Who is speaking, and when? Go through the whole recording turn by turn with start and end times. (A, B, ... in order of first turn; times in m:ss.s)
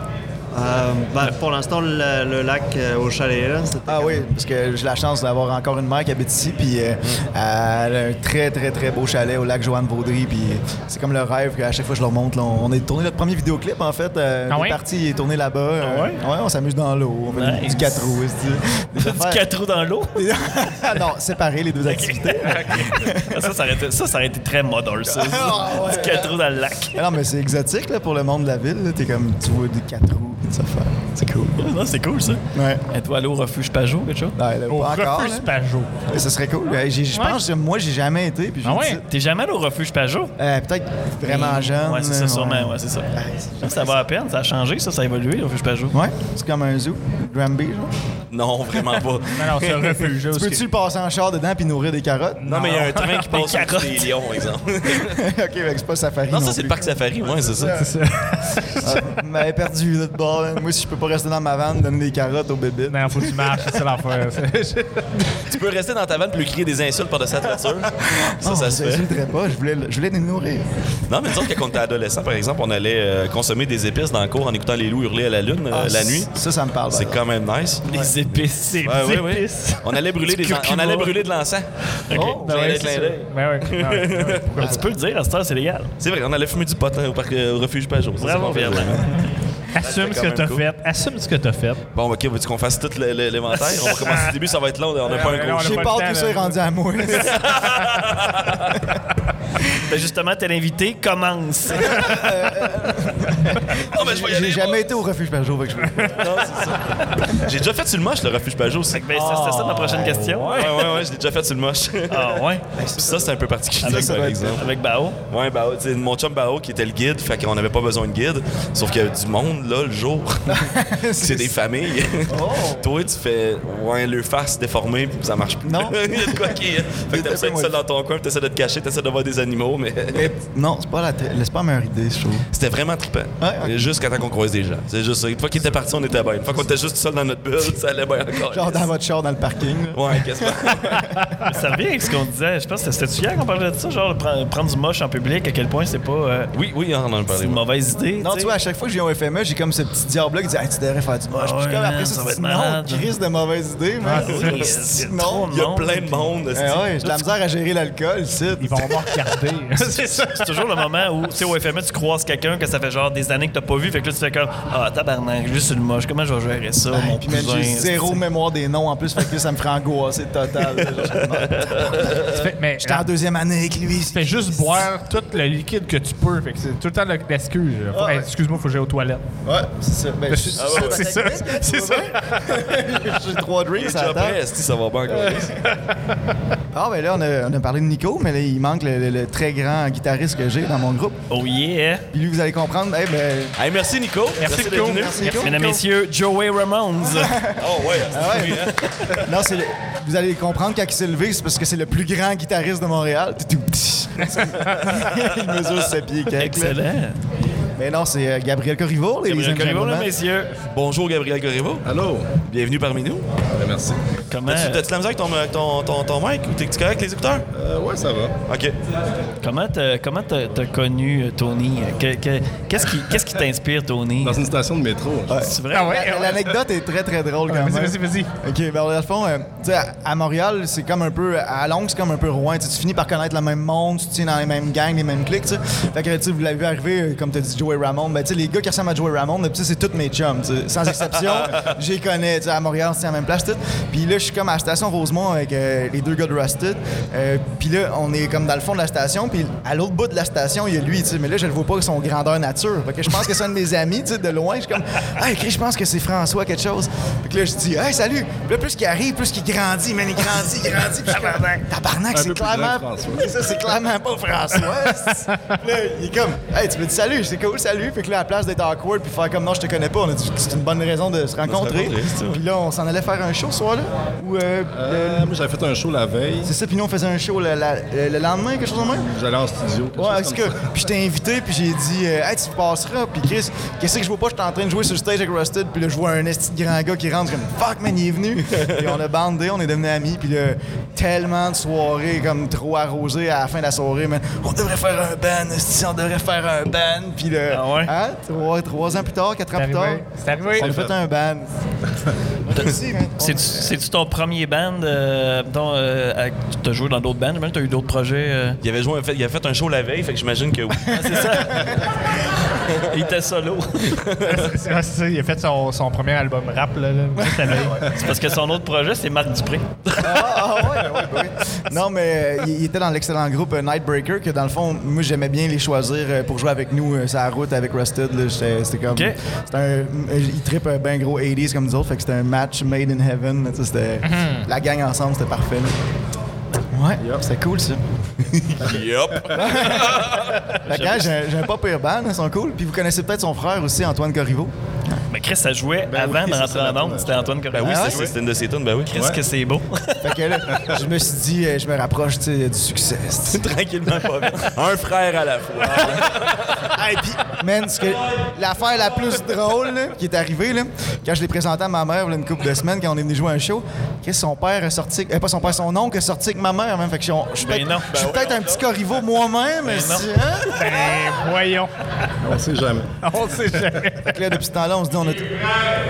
0:00.5-0:04.3 A
0:03.8-0:19.4 B
0:14.5-0:14.8 C
0:15.8-0:16.2 D
0:17.3-0:18.2 D
0:19.0-0:20.3 D
0:20.1-0:23.5 B
0:21.8-0:27.0 D
0:25.0-0:26.4 B
0:26.9-0:31.6 B
0:31.6-0:34.4 D
0:32.5-0:32.8 B
0:34.3-0:35.5 B
0:34.7-0:35.9 C
0:36.0-0:39.0 B
0:37.1-0:37.4 C
0:38.6-0:39.0 C
0:39.1-0:40.3 D
0:40.4-0:44.0 B
0:41.2-0:46.0 D
0:45.9-0:47.9 B
0:48.3-0:50.0 E
0:49.3-0:50.7 C
0:50.2-0:52.4 B
0:52.4-0:53.5 C
0:52.4-0:55.2 E
0:53.2-0:54.1 D
0:54.8-0:57.9 B
0:56.3-0:57.8 E
0:57.7-0:59.0 C
0:58.8-1:03.8 B
1:02.9-1:05.4 C
1:05.5-1:09.1 E
1:08.0-1:10.6 B
1:11.1-1:16.3 E
1:15.7-1:17.2 B
1:16.9-1:24.5 E
1:17.9-1:19.4 D
1:18.9-1:19.8 C
1:20.4-1:21.0 D
1:22.1-1:22.4 D
1:22.1-1:22.7 B
1:22.4-1:24.7 C
1:24.6-1:25.9 D
1:26.0-1:29.1 E
1:28.2-1:29.2 D
1:29.7-1:31.8 C
1:29.8-1:30.6 E
1:31.9-1:36.0 E
1:33.9-1:34.3 C
1:35.0-1:36.6 C
1:35.6-1:37.4 B
1:37.1-1:38.8 E
1:39.8-1:42.1 D
1:41.8-1:46.5 B
1:43.8-1:45.0 E
1:46.2-1:49.0 E
1:48.9-1:50.8 D
1:49.1-1:50.7 C
1:50.4-1:52.4 E
1:52.1-1:52.6 D
1:52.8-1:53.3 B
1:52.9-1:54.6 E
1:53.8-1:54.6 B
1:53.8-1:55.2 D
1:55.3-2:10.3 E
2:00.5-2:01.6 B
2:02.2-2:02.9 B
2:05.6-2:07.7 B
2:10.1-2:12.5 B
2:12.5-2:18.9 E
2:13.4-2:13.8 B
2:18.5-2:21.2 B
2:19.9-2:21.1 E
2:21.4-2:26.5 D
2:26.5-2:27.6 E
2:27.3-2:28.5 D
2:28.2-2:35.5 B
2:31.3-2:33.1 D
2:34.0-2:34.5 C
2:34.1-2:36.3 D
2:34.2-2:34.7 E
2:35.5-2:37.2 E
2:36.5-2:39.2 B
2:38.6-2:40.5 C
2:40.0-2:48.2 D
2:46.9-2:54.9 B
2:51.6-2:52.2 E
2:52.2-2:53.1 C
2:54.1-2:59.2 C
2:57.9-2:58.3 B
2:59.4-3:04.4 B
3:00.3-3:02.4 C
3:00.6-3:01.1 E
3:03.8-3:05.6 E
3:06.7-3:11.2 B
3:11.3-3:12.0 D
3:12.1-3:13.5 B
3:13.6-3:15.4 E
3:14.4-3:15.3 C
3:14.9-3:15.5 A
3:15.3-3:17.4 D
3:17.1-3:26.8 B
3:17.6-3:19.3 E
3:26.3-3:27.2 D
3:27.8-3:30.1 B
3:29.2-3:30.5 D
3:30.7-3:31.8 E
3:31.8-3:32.3 F
3:32.4-3:33.2 E
3:33.6-3:34.0 F
3:34.3-3:34.8 D
3:34.5-3:37.4 E
3:37.5-3:38.3 F
3:38.5-3:38.7 E
3:39.4-3:44.4 D
3:44.2-3:45.4 F
3:45.3-4:35.3 B
3:45.4-3:46.3 D
3:45.7-3:46.4 C
3:47.5-3:48.3 C
4:22.1-4:23.4 F
4:31.4-4:32.4 E
4:34.7-4:36.5 F
4:36.4-4:39.1 B
4:38.9-4:40.7 F
4:40.0-5:01.5 B
4:57.5-4:57.9 D
4:59.6-5:00.7 C
5:00.4-5:01.0 F
5:02.4-5:03.7 B
5:03.2-5:08.6 D
5:08.6-5:11.3 E
5:10.9-5:11.8 D
5:12.8-5:14.0 D
5:14.0-5:14.5 E
5:14.2-5:17.8 C
5:17.2-5:20.2 D
5:20.0-5:35.8 B
5:28.9-5:29.2 D
5:34.0-5:34.4 C
5:36.7-5:37.8 B
5:38.6-5:40.4 E
5:38.6-5:39.3 F
5:39.3-5:45.0 B
5:40.6-5:41.1 D
5:45.1-5:48.1 D
5:45.9-5:47.3 F
5:47.5-5:48.9 E
5:47.6-5:48.1 B
5:48.9-5:50.6 D
5:48.9-5:49.2 F
5:50.0-5:53.4 B
5:53.3-5:56.7 E
5:55.6-5:56.1 B
5:56.7-6:10.6 B
6:07.4-6:08.0 D
6:07.9-6:08.6 E
6:09.6-6:10.1 D
6:10.5-6:11.7 C
6:12.2-6:13.0 F
6:13.0-6:14.2 C
6:14.0-6:15.4 B